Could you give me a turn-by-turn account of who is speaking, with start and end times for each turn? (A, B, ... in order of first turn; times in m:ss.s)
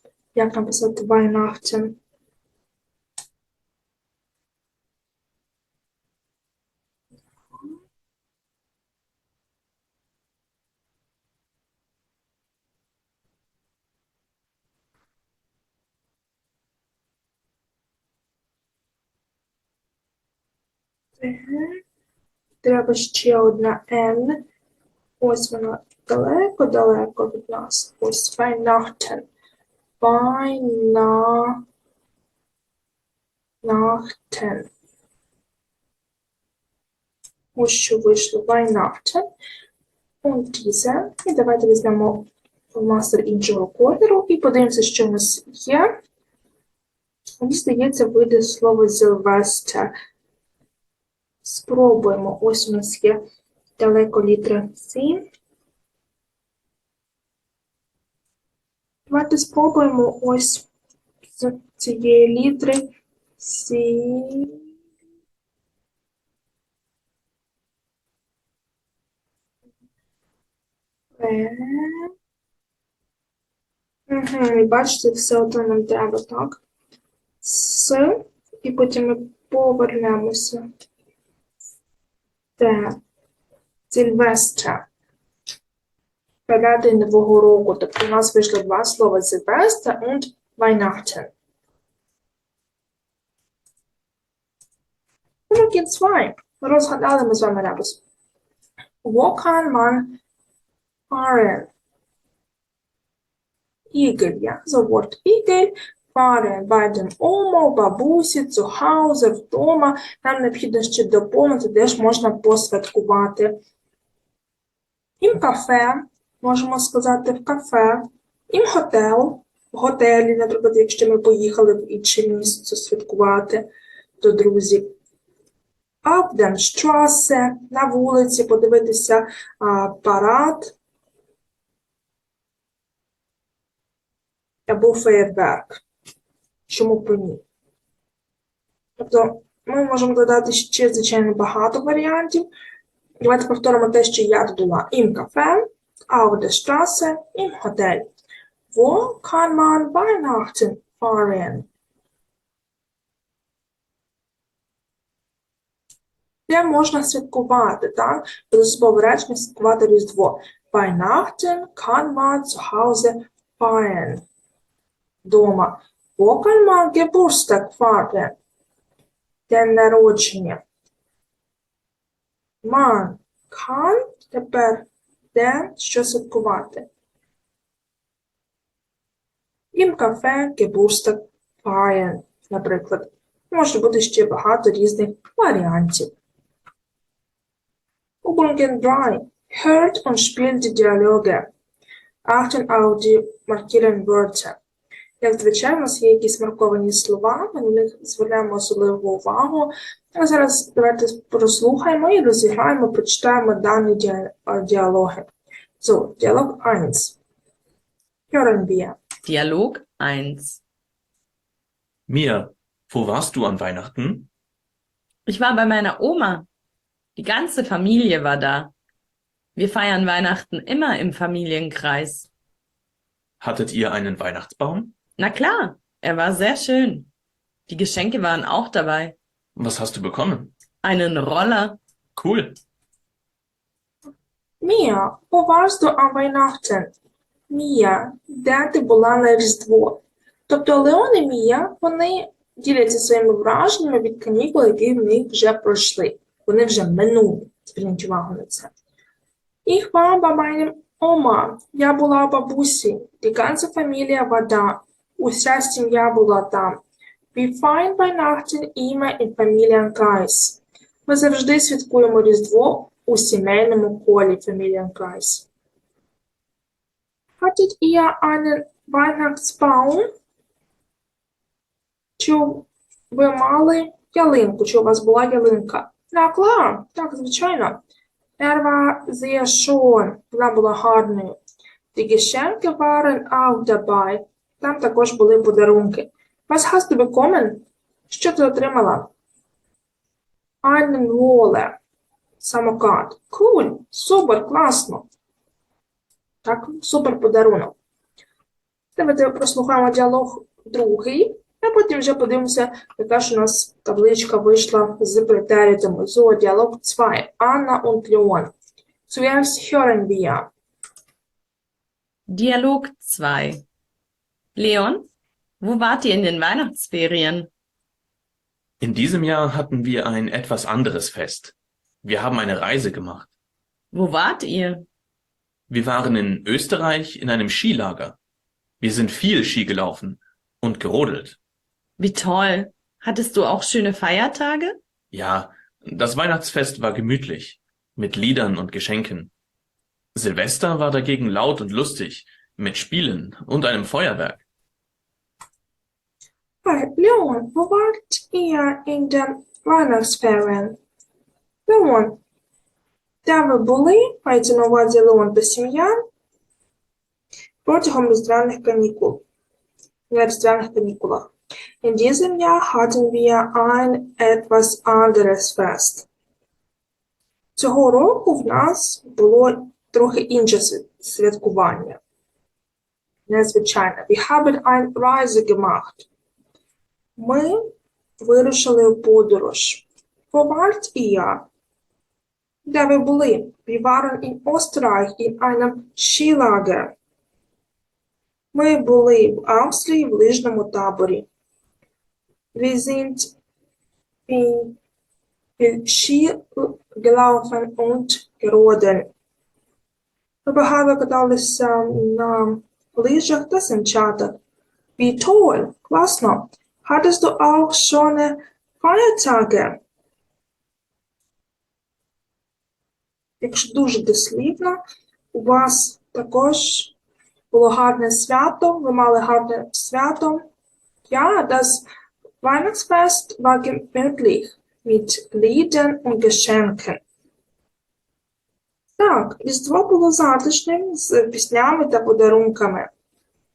0:00.3-0:02.0 A
0:21.2-0:21.8 A
0:22.6-0:24.4 A
0:25.2-0:29.2 A
0:30.0-0:31.6 A
0:33.6-0:34.7 A
0:37.6-0:39.2 A
0:40.2-0:45.9 A
0:47.4-0:49.9 A
0:51.4-0:53.2 A
0:53.8-0:55.3 A
0:59.1-1:00.6 A
1:01.3-1:04.6 A
1:11.2-1:12.1 A
1:14.1-1:16.6 A
1:17.4-1:20.6 A
1:22.6-1:23.0 A
1:23.9-1:24.8 A
1:26.5-1:31.3 A
1:35.5-1:38.0 A
1:39.0-1:40.2 A
1:41.1-1:41.7 A
1:43.9-1:53.6 A
1:55.2-2:03.7 A
2:04.2-2:04.9 A
2:06.0-2:10.7 A
2:14.7-2:15.8 A
2:16.7-2:17.4 A
2:19.0-2:22.5 A
2:23.2-2:28.1 A
2:28.7-2:31.7 A
2:36.5-2:44.2 A
2:45.2-2:48.4 A
2:49.5-2:50.6 A
2:52.6-2:56.9 A
2:59.7-3:06.1 A
3:08.2-3:11.5 A
3:12.2-3:14.6 A
3:15.2-3:25.3 A
3:25.8-3:27.2 A
3:28.3-3:29.0 A
3:29.2-3:30.6 B
3:32.1-3:34.3 C
3:35.3-3:36.5 B
3:37.2-3:38.7 B
3:39.6-3:42.3 B
3:43.4-3:44.9 C
3:45.2-3:47.1 B
3:47.7-3:49.1 B
3:49.6-3:50.5 C
3:50.8-3:51.8 B
3:52.2-3:52.6 C
3:54.6-3:56.9 A
3:57.5-4:08.7 A
4:09.6-4:16.8 A
4:17.3-4:25.5 A
4:27.4-4:30.1 A
4:32.2-4:37.8 A
4:38.4-4:41.4 A
4:41.9-4:49.1 A
4:50.6-4:51.8 A
4:52.4-4:55.0 A
4:56.4-4:57.7 A
4:59.0-5:08.5 A
5:09.1-5:10.5 A
5:12.3-5:13.6 B
5:14.6-5:15.1 B
5:15.6-5:17.5 B
5:18.8-5:23.3 C
5:23.9-5:24.8 B
5:25.7-5:28.2 C
5:28.8-5:31.4 C
5:32.0-5:34.8 B
5:35.1-5:39.3 C
5:40.1-5:44.4 C
5:46.6-5:50.8 A
5:51.7-5:52.2 A
5:53.2-5:56.0 A
5:57.6-5:59.2 A
6:00.1-6:01.3 A
6:01.8-6:06.1 A
6:07.6-6:12.0 A
6:13.3-6:16.0 A
6:17.2-6:17.6 A
6:18.2-6:21.4 A
6:22.6-6:26.9 A
6:28.5-6:31.3 A
6:32.5-6:33.3 A
6:34.3-6:34.8 A
6:35.6-6:39.1 A
6:40.4-6:44.4 A
6:45.0-6:49.8 A
6:53.4-6:54.8 A
6:55.3-6:56.9 A
6:57.5-7:00.4 A
7:01.1-7:01.8 A
7:02.4-7:07.0 A
7:09.0-7:12.9 A